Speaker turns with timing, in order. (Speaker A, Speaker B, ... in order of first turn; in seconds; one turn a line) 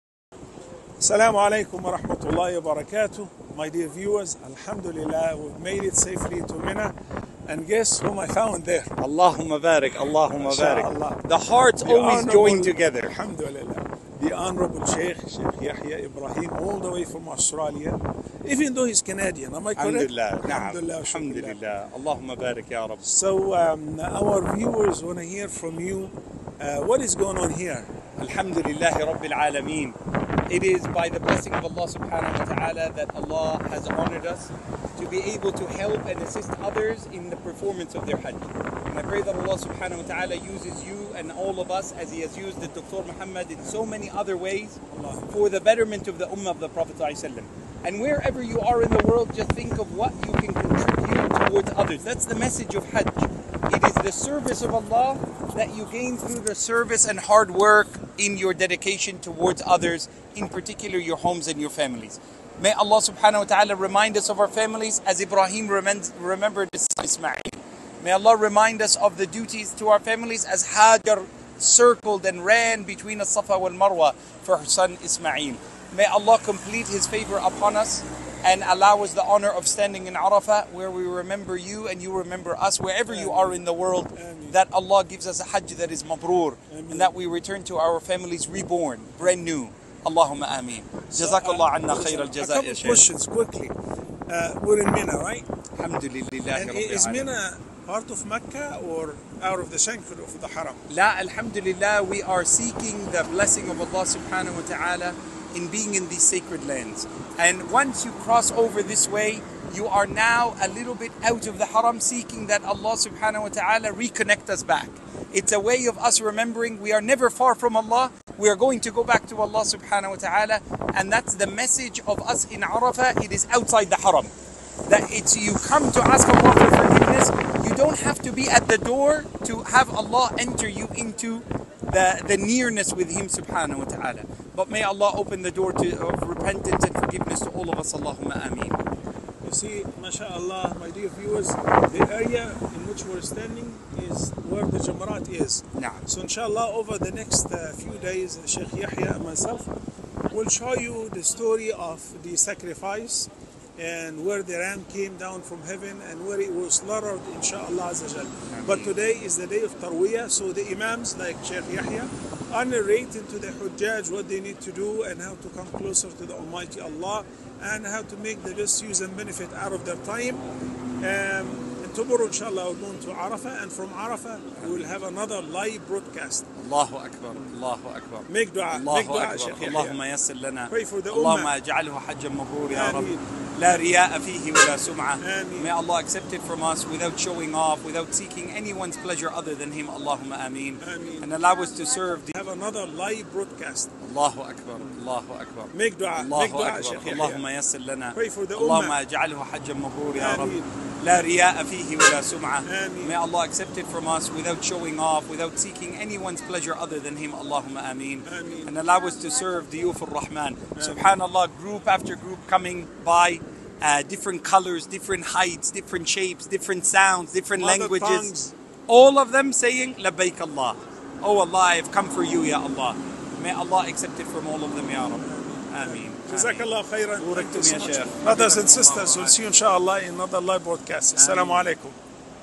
Speaker A: 1.0-6.9
Speaker A: 7.5-8.9
Speaker B: 9.0-13.1
Speaker A: 10.3-11.2
Speaker A: 11.8-21.6
Speaker B: 19.8-23.1
Speaker A: 23.1-27.9
Speaker B: 28.2-29.9
Speaker B: 30.5-44.8
Speaker A: 44.9-45.5
Speaker B: 45.3-93.0
Speaker A: 83.1-83.6
Speaker A: 84.2-84.6
Speaker A: 86.7-87.1
Speaker A: 91.1-93.7
Speaker A: 94.3-95.5
Speaker B: 95.8-97.3
Speaker A: 96.5-100.8
Speaker B: 100.9-124.3
Speaker B: 124.9-138.8
Speaker A: 139.4-149.7
Speaker B: 145.8-146.1
Speaker A: 150.3-170.4
Speaker B: 158.5-158.9
Speaker A: 171.0-176.5
Speaker B: 174.6-175.0
Speaker B: 176.6-192.4
Speaker A: 178.3-180.0
Speaker A: 180.7-181.5
Speaker A: 182.7-183.2
Speaker A: 185.2-185.7
Speaker A: 190.8-191.3
Speaker A: 192.3-193.9
Speaker B: 194.0-218.3
Speaker A: 195.7-197.4
Speaker A: 198.1-199.0
Speaker A: 200.1-200.7
Speaker A: 202.7-203.2
Speaker A: 208.3-208.8
Speaker A: 210.8-211.1
Speaker A: 217.6-218.5
Speaker B: 218.9-229.4
Speaker A: 225.3-232.0
Speaker B: 231.2-231.7